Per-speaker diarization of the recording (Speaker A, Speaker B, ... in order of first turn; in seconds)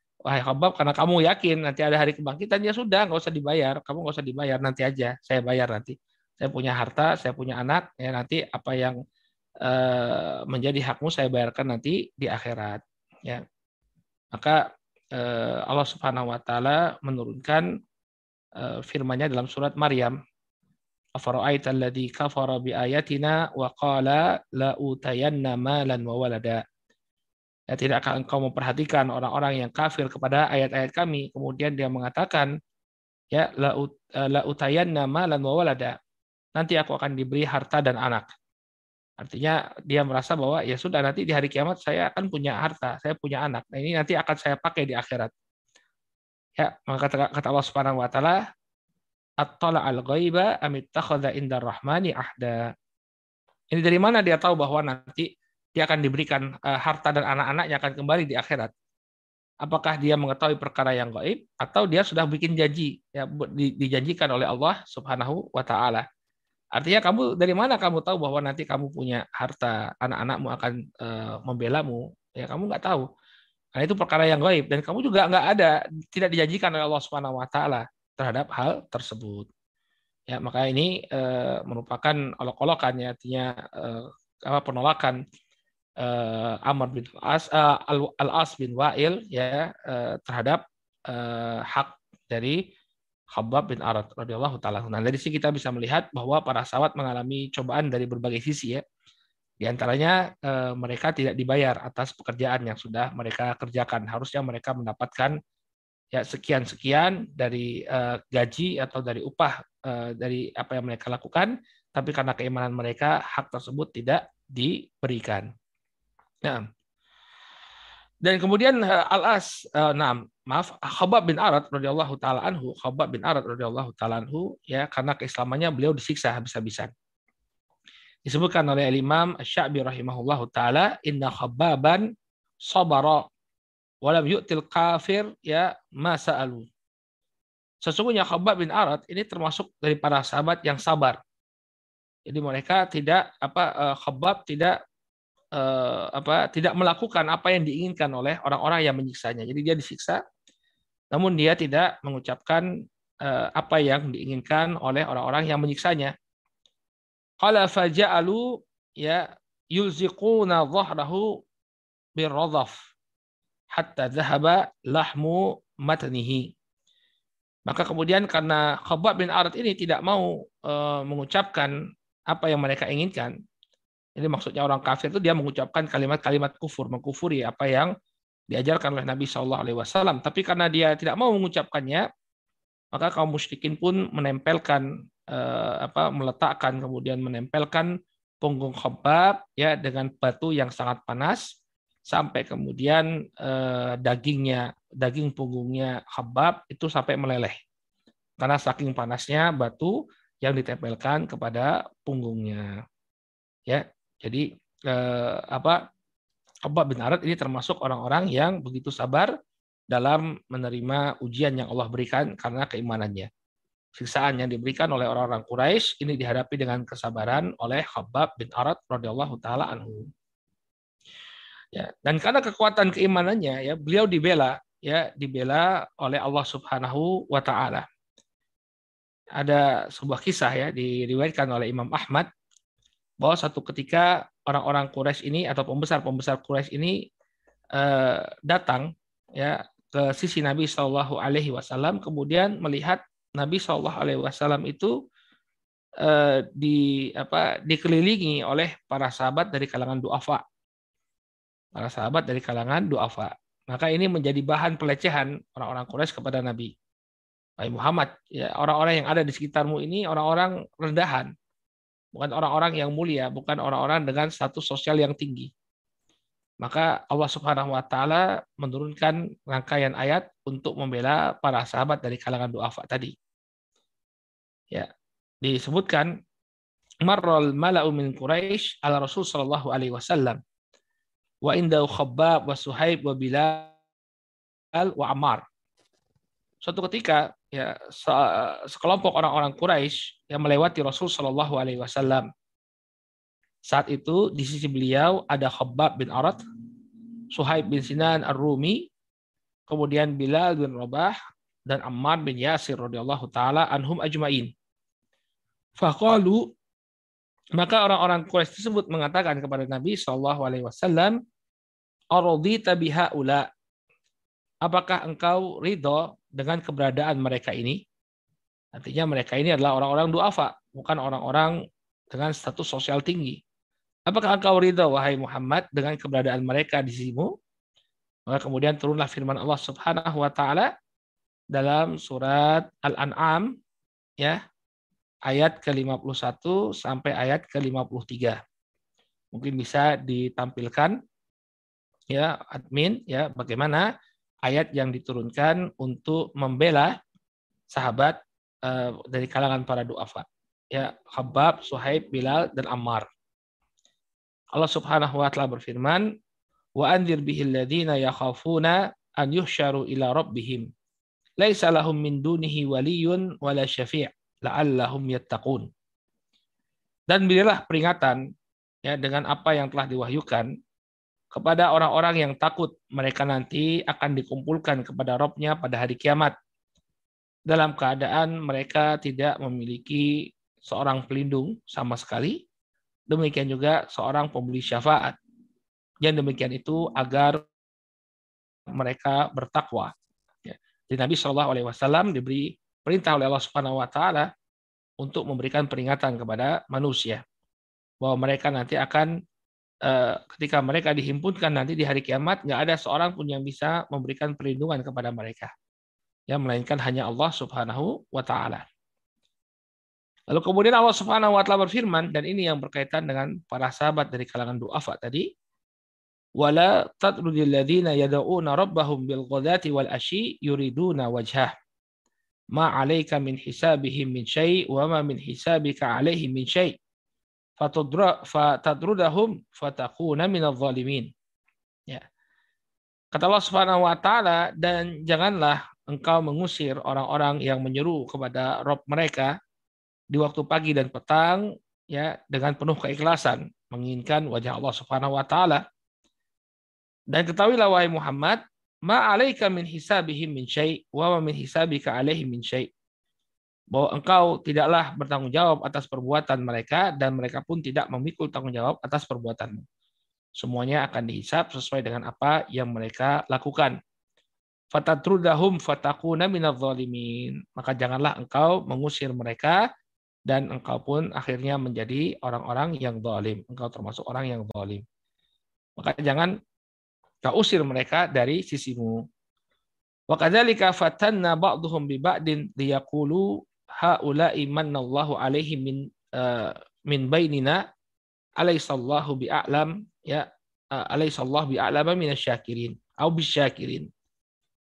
Speaker A: 0.3-9.0, 9.7-13.4, 14.3-14.6, 15.2-17.7, 18.6-20.1, 21.2-26.6, 27.7-32.5, 33.3-36.0, 36.6-38.3, 39.2-45.3, 46.6-48.4, 49.4-52.6, 53.7-58.7, 59.6-66.0, 66.8-73.0, 73.8-79.5, 80.3-85.2, 86.0-92.6, 93.3-98.8, 99.6-105.4, 106.1-115.5, 118.2-126.9, 128.3-132.1, 132.7-133.3, 134.0-136.7, 137.8-141.2, 142.3-144.8, 145.6-150.2, 151.1-152.7, 153.2-156.1, 157.4-161.3, 162.2-162.7, 163.7-166.5, 167.7-171.7, 172.3-173.3, 174.2-177.9, 178.5-182.1, 182.9-187.9, 188.4-191.4, 192.1-197.6, 198.4-202.7, 203.7-205.8, 206.7-209.3, 209.9-213.3, 214.0-220.1, 221.7-227.8, 229.4-232.3, 233.2-237.0, 237.8-244.9, 246.0-250.4, 251.8-256.7, 257.6-261.3, 262.1-265.5, 266.6-273.1, 275.4-276.1, 277.1-280.4, 281.4-283.7, 284.8-285.4, 286.6-292.3, 293.7-296.4, 297.3-298.8, 299.7-301.1, 301.7-304.5, 305.8-306.5, 307.6-311.2, 312.1-313.5, 314.6-317.8, 318.8-321.5, 322.1-323.4, 324.1-327.3, 328.3-330.7, 331.5-333.5, 335.3-338.4, 339.3-341.0, 342.1-343.9, 344.4-346.9, 347.7-353.1, 354.5-356.1, 356.8-360.7, 361.4-365.7, 367.1-368.2, 368.9-370.5, 371.3-376.3, 377.5-380.1, 380.6-382.4, 383.1-385.2, 386.0-387.4, 388.8-389.9, 390.5-394.3, 395.0-397.2, 398.0-399.1, 399.9-405.5, 406.3-408.6, 410.3-415.3, 416.4-421.5, 422.5-426.8, 427.6-431.1, 433.1-439.3, 440.1-445.6, 447.1-452.7, 453.7-459.6, 460.4-463.8, 464.7-469.6, 470.3-474.8, 475.8-476.3, 477.2-479.0, 480.1-487.6, 488.4-493.9